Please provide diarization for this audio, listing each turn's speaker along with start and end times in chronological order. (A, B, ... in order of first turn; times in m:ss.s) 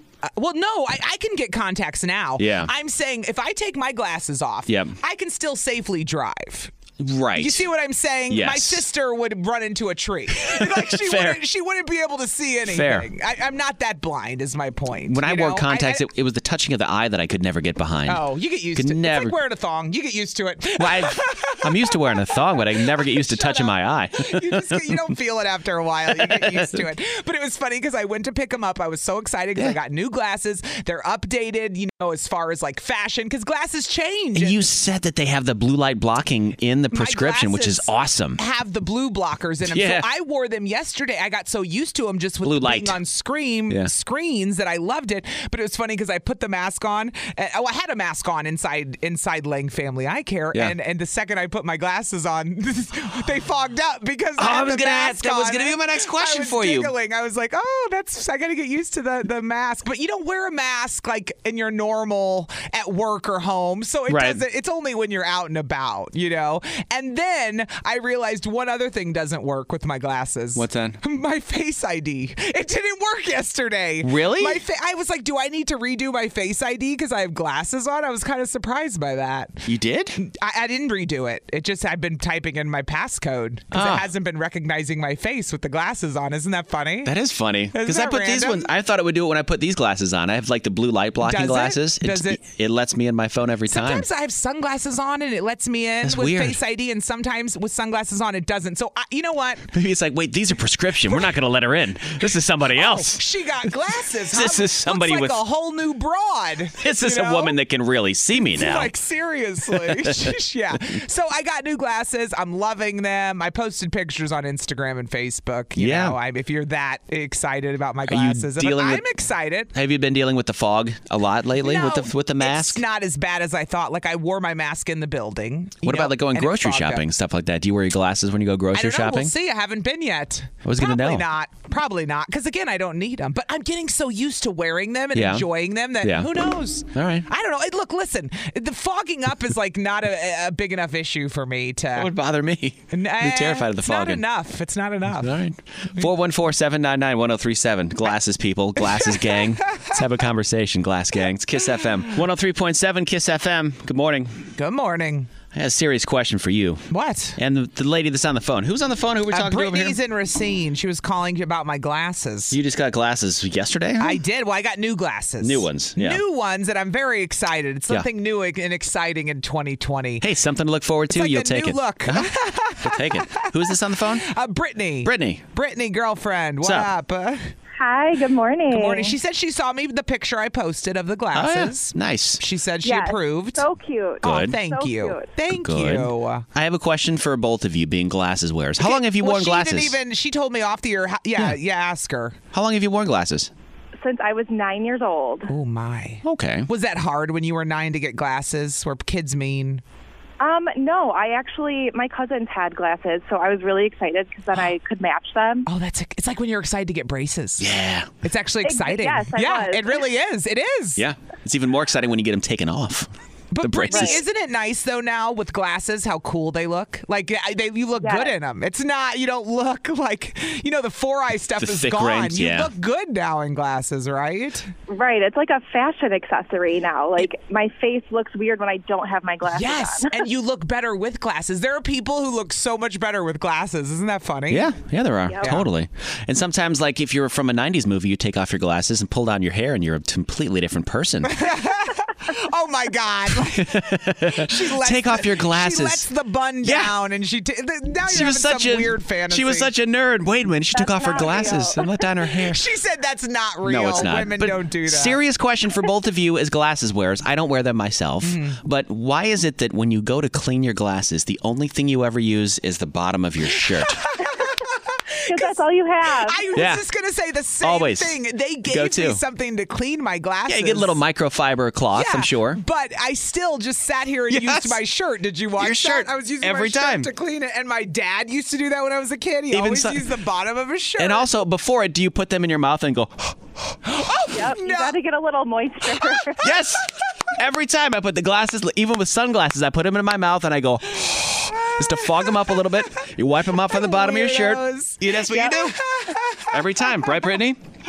0:00.2-0:06.7 A
0:02.4-0:02.7 B
0:04.7-0:05.0 B
0:07.0-0:07.7 B
0:07.4-0:16.0 A
0:08.3-0:08.8 B
0:10.4-0:11.4 B
0:12.6-0:13.1 B
0:15.0-0:19.4 B
0:18.1-0:34.7 A
0:20.8-0:25.0 B
0:26.1-0:26.8 B
0:34.3-0:38.4 B
0:36.9-1:19.6 A
0:39.6-0:40.1 B
0:42.4-0:43.0 B
0:54.4-0:56.9 B
1:04.1-1:04.4 B
1:10.5-1:11.0 B
1:14.0-1:14.6 B
1:19.6-1:20.2 B
1:20.2-1:27.1 A
1:23.7-1:24.1 B
1:27.0-1:34.1 B
1:27.7-1:28.7 A
1:31.2-1:32.4 A
1:33.7-1:39.7 A
1:36.0-1:36.6 B
1:39.7-1:43.3 B
1:42.7-1:47.6 A
1:44.2-1:45.4 B
1:46.8-1:48.9 B
1:48.5-1:59.7 A
1:49.7-1:50.4 B
1:55.8-1:56.2 B
1:58.1-1:59.0 B
1:59.7-2:02.8 B
2:01.6-2:07.0 A
2:05.8-2:09.3 B
2:08.7-2:22.1 A
2:10.6-2:11.3 B
2:15.1-2:15.5 B
2:16.0-2:17.3 B
2:21.9-2:24.2 B
2:22.9-2:25.3 A
2:25.1-2:34.5 B
2:28.9-2:29.9 A
2:34.6-2:35.3 A
2:35.5-2:40.0 B
2:36.9-2:37.4 A
2:39.3-2:42.6 A
2:42.5-2:44.2 B
2:44.0-2:50.2 A
2:45.4-2:46.2 B
2:50.2-2:54.2 B
2:51.1-2:57.5 A
2:55.0-2:55.4 B
2:56.6-2:56.9 B
2:57.8-2:59.1 C
2:58.7-3:03.6 A
3:01.3-3:02.4 B
3:02.8-3:05.3 C
3:04.2-3:04.6 B
3:04.2-3:06.4 A
3:05.5-3:10.0 B
3:08.8-3:12.4 A
3:12.5-3:13.5 B
3:14.0-3:15.5 C
3:15.5-3:19.8 A
3:16.2-3:16.7 B
3:20.4-3:25.7 C
3:25.6-3:27.7 A
3:27.6-3:28.1 B
3:28.2-3:31.0 A
3:28.6-3:30.1 C
3:31.0-3:34.2 B
3:33.5-3:44.7 A
3:33.9-3:34.2 C
3:38.0-3:38.3 C
3:41.6-3:42.7 B
3:44.9-3:50.2 C
3:49.4-3:54.7 A
3:54.5-4:01.5 B
3:55.4-3:55.7 A
4:01.2-4:09.7 A
4:03.3-4:06.1 B
4:06.6-4:07.0 B
4:08.0-4:12.6 B
4:10.7-4:11.9 C
4:11.1-4:11.6 A
4:12.5-4:15.2 A
4:13.6-4:24.0 B
4:18.2-4:18.6 A
4:23.8-4:31.0 A
4:25.3-4:26.4 C
4:26.5-4:26.8 B
4:27.6-4:29.2 B
4:30.5-4:32.6 B
4:31.9-4:41.3 A
4:34.3-4:34.8 B
4:35.6-4:37.1 B
4:39.5-4:40.1 B
4:41.0-4:43.4 B
4:43.8-4:45.0 A
4:44.3-4:46.5 C
4:46.4-4:55.8 B
4:51.5-4:52.6 A
4:53.6-4:57.3 A
4:56.5-4:57.6 B